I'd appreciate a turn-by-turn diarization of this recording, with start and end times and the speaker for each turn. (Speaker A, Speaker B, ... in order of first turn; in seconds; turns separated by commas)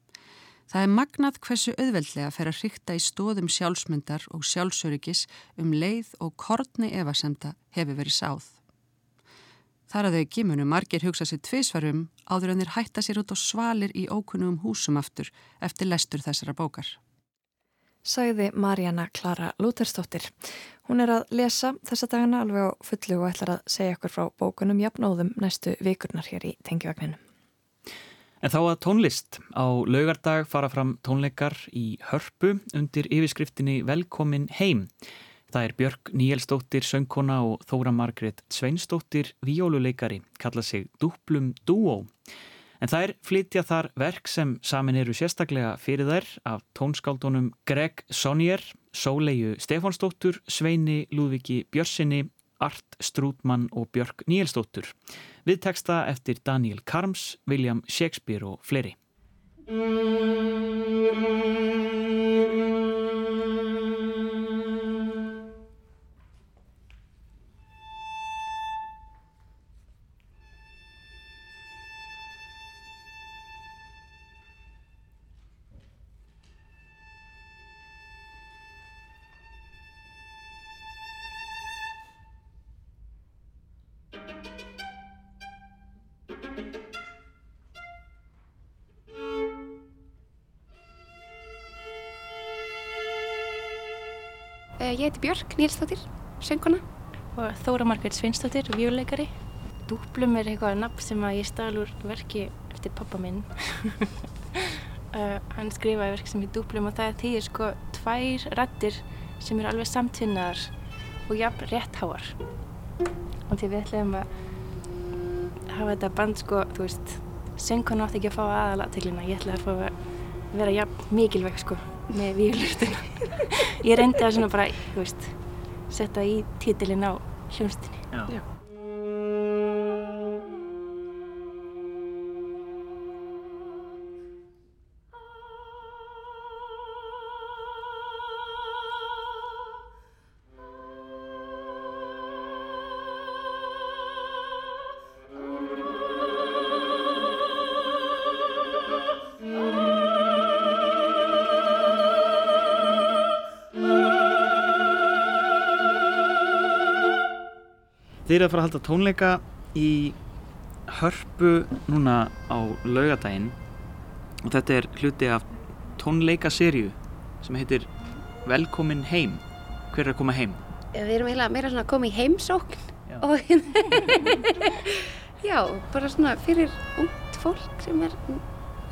Speaker A: 0.7-8.6, Speaker A: 9.9-17.0, Speaker B: 18.0-27.2, Speaker C: 28.4-34.9, Speaker C: 35.5-42.1, Speaker C: 42.8-59.0, Speaker D: 94.8-96.8, Speaker E: 97.3-99.3, Speaker E: 99.8-104.0, Speaker E: 105.1-110.7, Speaker E: 111.2-112.3, Speaker E: 113.5-114.3, Speaker E: 115.7-120.0, Speaker E: 120.5-128.1, Speaker C: 158.2-160.2, Speaker C: 160.9-163.6, Speaker C: 164.4-167.9, Speaker C: 168.4-170.6, Speaker D: 170.9-178.4